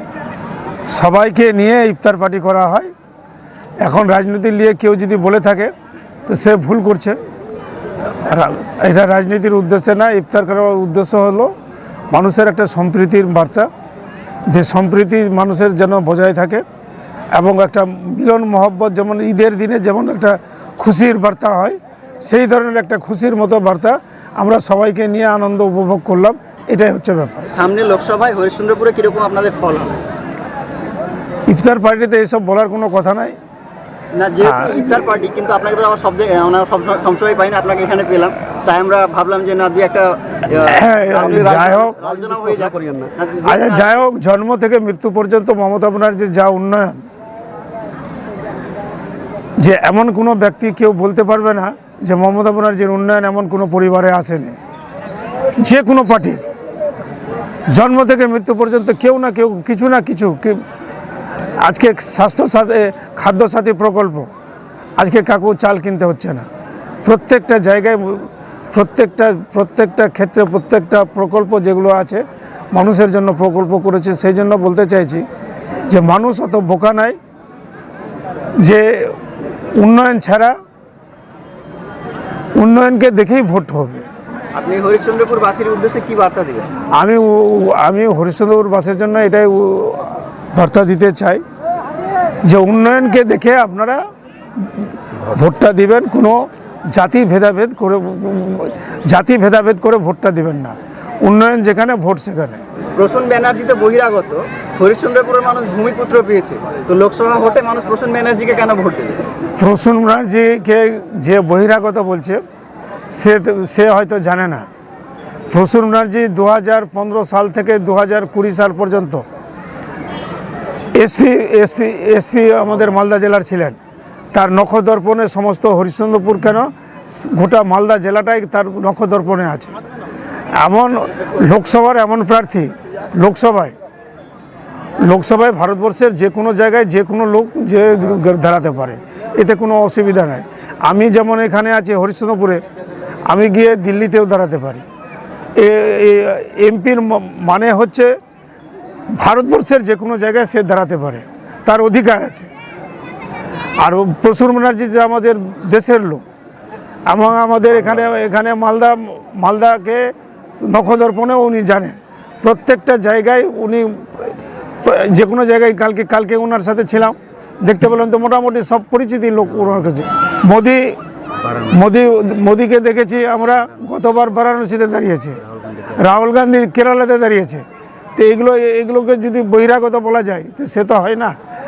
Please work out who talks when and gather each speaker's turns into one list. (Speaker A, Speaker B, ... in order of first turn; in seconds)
Speaker A: 0.9-2.9, 3.8-5.7, 6.2-7.2, 8.2-11.5, 12.1-13.7, 14.5-16.6, 17.3-27.4, 31.5-33.4, 34.4-34.8, 40.6-42.0, 43.4-47.0, 49.6-54.6, 55.6-56.4, 57.7-60.6, 61.6-64.3, 65.0-66.4, 67.0-75.2, 75.9-77.2, 78.6-79.2, 79.7-80.5, 82.5-84.0, 86.9-91.4, 92.4-94.0, 94.6-102.6, 109.6-112.4, 113.1-114.7, 115.5-119.2, 120.9-123.8, 124.3-129.8, 130.5-133.7, 135.0-142.6, 143.3-144.8, 145.6-148.1, 149.2-152.5, 153.8-156.2, 157.1-177.6, 178.2-181.3
Speaker B: 27.5-30.0, 34.1-44.0, 84.5-86.7, 103.0-109.2